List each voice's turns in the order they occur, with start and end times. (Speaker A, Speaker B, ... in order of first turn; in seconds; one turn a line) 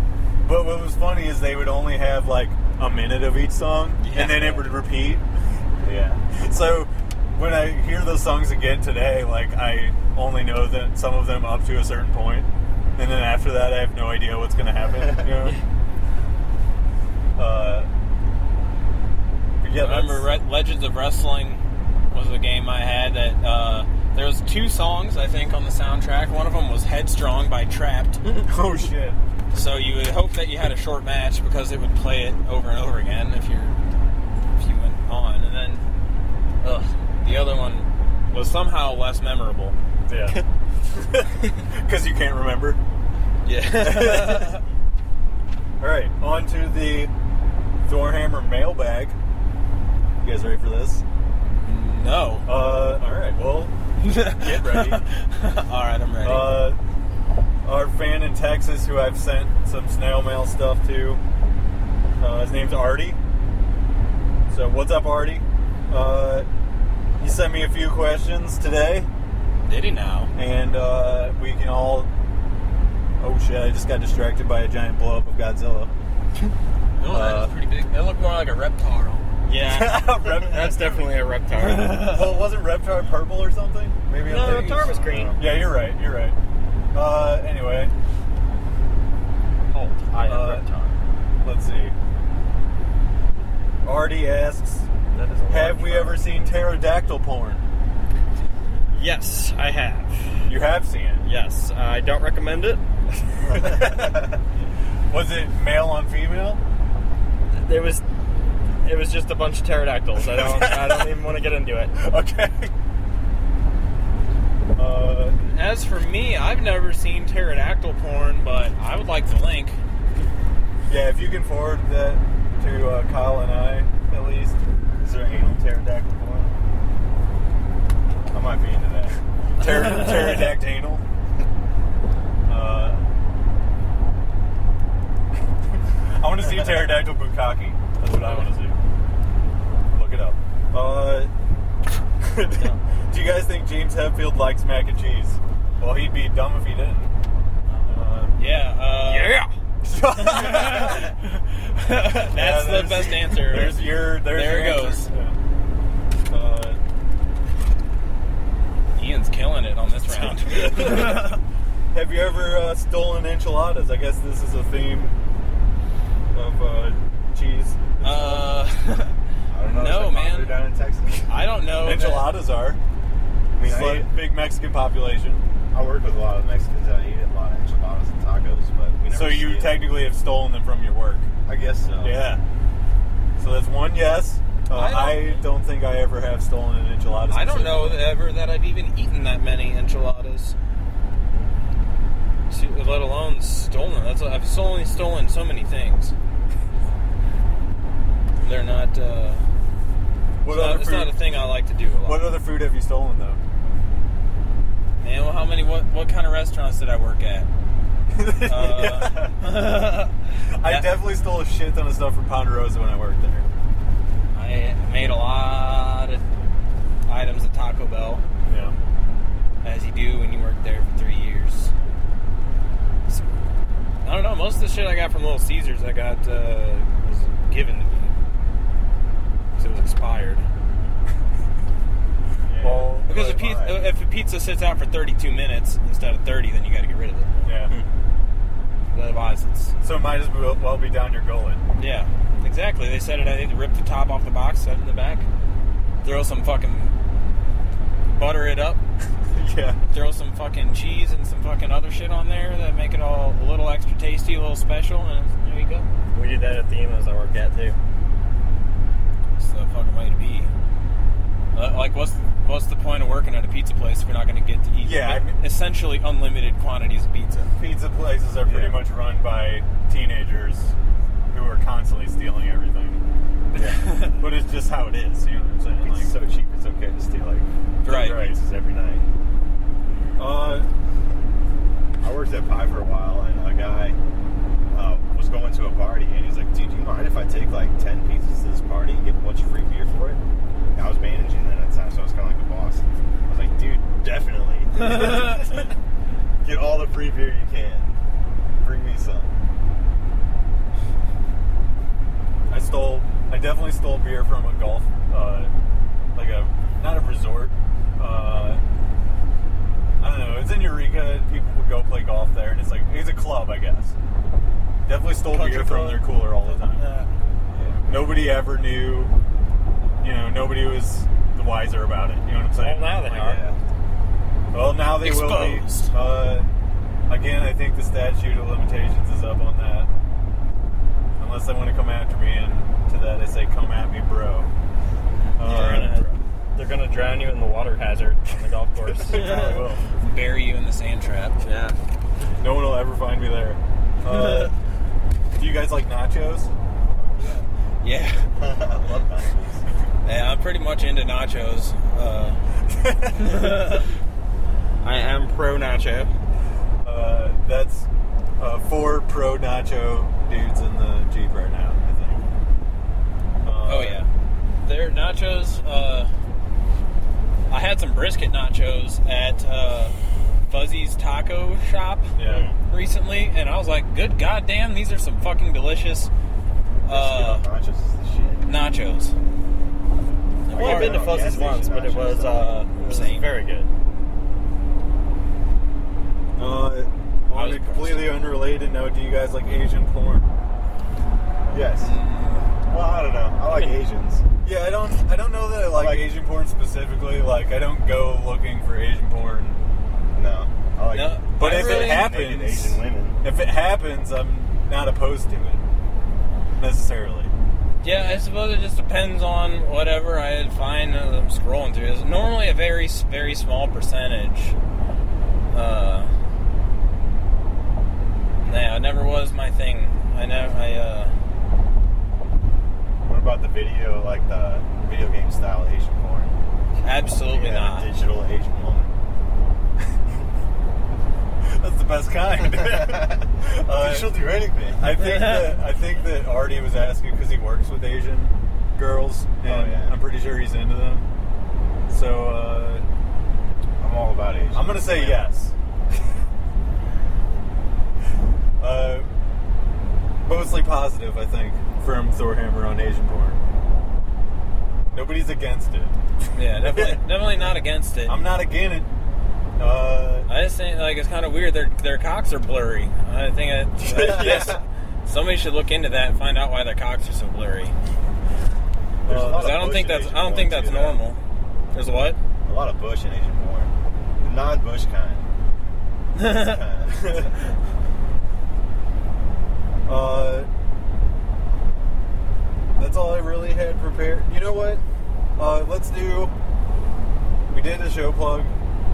Speaker A: 0.4-5.2
Speaker B: 4.0-4.8
Speaker C: 5.8-6.2
Speaker A: 6.3-15.6
Speaker A: 17.4-17.9
Speaker A: 19.6-20.3
Speaker B: 19.8-28.4
Speaker A: 28.4-29.2
Speaker B: 29.5-33.8
Speaker B: 34.5-35.8
Speaker B: 36.6-39.8
Speaker A: 40.1-40.4
Speaker A: 40.9-42.8
Speaker B: 43.4-44.6
Speaker A: 43.8-44.6
Speaker A: 45.8-47.1
Speaker A: 47.9-49.1
Speaker A: 50.2-51.0
Speaker B: 51.6-52.5
Speaker A: 52.5-53.7
Speaker B: 54.0-56.7
Speaker A: 54.4-55.0
Speaker A: 56.2-56.8
Speaker A: 57.6-61.2
Speaker A: 62.2-63.2
Speaker A: 64.5-66.5
Speaker A: 67.2-69.1
Speaker B: 69.7-70.3
Speaker A: 70.3-72.1
Speaker A: 73.2-75.9
Speaker B: 77.0-79.2
Speaker A: 77.1-77.5
Speaker D: 79.5-82.2
Speaker A: 79.6-81.0
Speaker B: 81.6-82.3
Speaker A: 82.0-86.4
Speaker D: 84.2-85.4
Speaker B: 84.3-85.0
Speaker C: 84.5-85.4
Speaker A: 86.9-87.9
Speaker D: 89.7-91.0
Speaker A: 90.2-90.6
Speaker A: 91.4-91.9
Speaker A: 93.8-94.9
Speaker D: 95.1-96.5
Speaker A: 95.5-97.6
Speaker D: 98.9-100.1
Speaker A: 100.5-101.2
Speaker D: 101.2-102.8
Speaker A: 103.5-104.3
Speaker A: 105.1-106.6
Speaker D: 107.5-108.0
Speaker D: 108.8-112.0
Speaker A: 110.3-111.1
Speaker A: 111.9-112.7
Speaker A: 114.7-115.4
Speaker B: 115.5-119.8
Speaker A: 120.9-124.5
Speaker C: 125.0-126.5
Speaker C: 128.3-129.2
Speaker A: 129.6-131.0
Speaker A: 132.4-133.0
Speaker A: 136.0-138.8
Speaker A: 139.9-141.3
Speaker A: 142.2-147.1
Speaker A: 147.8-148.4
Speaker B: 148.3-149.4
Speaker D: 149.0-149.5
Speaker A: 149.8-151.1
Speaker B: 150.2-155.1
Speaker A: 152.3-155.3
Speaker A: 156.3-156.8
Speaker B: 158.9-161.4
Speaker A: 160.2-161.3
Speaker A: 161.9-165.1
Speaker A: 166.3-168.5
Speaker B: 168.0-170.6
Speaker C: 169.5-171.3
Speaker B: 171.3-172.3
Speaker A: 171.8-172.8
Speaker C: 173.6-174.1
Speaker A: 173.6-175.4
Speaker C: 175.7-179.8
Speaker A: 179.1-181.3
Speaker C: 181.4-182.2
Speaker A: 182.0-182.4
Speaker A: 183.4-188.0
Speaker B: 184.7-185.4
Speaker B: 187.3-190.6
Speaker B: 192.5-196.1
Speaker B: 198.4-199.4
Speaker A: 200.4-201.2
Speaker B: 200.4-202.3
Speaker A: 202.0-203.4
Speaker B: 205.0-207.5
Speaker A: 208.1-209.4
Speaker B: 208.4-210.9
Speaker A: 210.5-213.4
Speaker B: 214.3-216.2
Speaker B: 217.1-218.2
Speaker A: 218.4-218.8
Speaker B: 219.6-221.7
Speaker B: 224.0-228.1
Speaker B: 229.6-230.4
Speaker C: 232.5-233.5
Speaker A: 232.6-233.7
Speaker B: 233.1-237.3
Speaker A: 237.4-237.7
Speaker B: 238.9-239.7
Speaker A: 239.8-241.6
Speaker B: 241.8-245.3
Speaker B: 246.0-246.9
Speaker B: 248.1-248.8
Speaker A: 249.3-249.8
Speaker B: 249.9-255.9
Speaker D: 256.1-257.8
Speaker B: 259.4-260.5
Speaker B: 261.5-267.5
Speaker A: 264.8-265.4
Speaker A: 267.5-270.7
Speaker C: 268.4-268.8
Speaker A: 271.3-273.0
Speaker C: 273.5-273.8
Speaker B: 273.5-274.2
Speaker A: 274.2-276.1
Speaker C: 275.8-279.0
Speaker B: 277.8-278.4
Speaker A: 277.9-278.3
Speaker A: 280.2-280.7
Speaker C: 282.0-284.0
Speaker C: 284.7-290.2
Speaker C: 290.7-295.7
Speaker B: 294.7-295.6
Speaker C: 296.4-297.9
Speaker C: 298.6-299.3
Speaker A: 302.5-305.5
Speaker A: 306.1-308.6
Speaker A: 310.0-313.9
Speaker A: 314.8-316.8
Speaker D: 315.4-316.0
Speaker B: 316.8-317.0
Speaker C: 317.5-317.8
Speaker A: 317.8-319.1
Speaker A: 320.0-323.4
Speaker D: 322.6-323.5
Speaker C: 323.2-323.6
Speaker A: 324.5-326.5
Speaker B: 325.0-325.9
Speaker A: 327.1-329.9
Speaker A: 331.2-334.5
Speaker B: 335.2-335.9
Speaker A: 335.4-336.1
Speaker D: 335.4-339.4
Speaker A: 339.1-339.8
Speaker B: 339.1-341.4
Speaker D: 341.4-341.8
Speaker A: 342.4-344.5
Speaker B: 344.1-344.5
Speaker A: 345.4-346.5
Speaker B: 347.8-348.3
Speaker C: 348.4-349.6
Speaker B: 350.0-352.4
Speaker A: 352.7-353.2
Speaker B: 353.1-353.9
Speaker D: 354.8-356.1
Speaker A: 356.8-357.9
Speaker A: 358.4-362.2
Speaker A: 363.4-364.0
Speaker B: 363.7-364.1
Speaker B: 364.6-366.1
Speaker B: 367.5-369.9
Speaker B: 370.5-372.1
Speaker A: 372.1-372.5
Speaker D: 372.2-372.5
Speaker B: 372.7-376.1
Speaker B: 376.9-377.4
Speaker C: 376.9-378.4
Speaker B: 378.4-379.1
Speaker B: 380.5-381.2
Speaker C: 380.5-382.6
Speaker D: 380.5-383.7
Speaker B: 382.8-383.3
Speaker A: 386.4-390.3
Speaker B: 387.3-388.2
Speaker C: 391.5-391.9
Speaker B: 391.8-392.5
Speaker C: 392.7-394.2
Speaker D: 393.4-393.8
Speaker A: 394.4-399.6
Speaker C: 400.1-403.2
Speaker B: 400.9-402.1
Speaker A: 401.4-405.6
Speaker A: 406.6-407.3
Speaker B: 407.8-414.6
Speaker B: 415.5-416.1
Speaker B: 418.4-421.1
Speaker C: 423.0-426.3
Speaker B: 426.8-427.9
Speaker C: 427.3-428.9
Speaker A: 431.4-441.1
Speaker C: 432.4-434.8
Speaker B: 435.0-435.5
Speaker C: 439.4-439.9
Speaker A: 441.9-442.8
Speaker C: 443.8-445.2
Speaker A: 444.5-445.5
Speaker A: 448.6-449.1
Speaker A: 450.2-453.4
Speaker A: 454.9-456.0
Speaker B: 456.3-458.2
Speaker A: 456.6-457.0
Speaker A: 458.1-458.9
Speaker A: 459.6-460.3
Speaker B: 460.3-467.7
Speaker C: 463.9-464.6
Speaker D: 464.0-464.5
Speaker C: 469.0-471.0
Speaker A: 469.1-469.6
Speaker B: 469.2-471.2
Speaker B: 471.7-472.2
Speaker C: 472.4-475.3
Speaker C: 476.1-477.3
Speaker B: 476.2-476.6
Speaker A: 476.9-477.3
Speaker A: 479.9-480.5
Speaker A: 482.8-484.8
Speaker A: 485.4-486.3
Speaker A: 487.5-488.5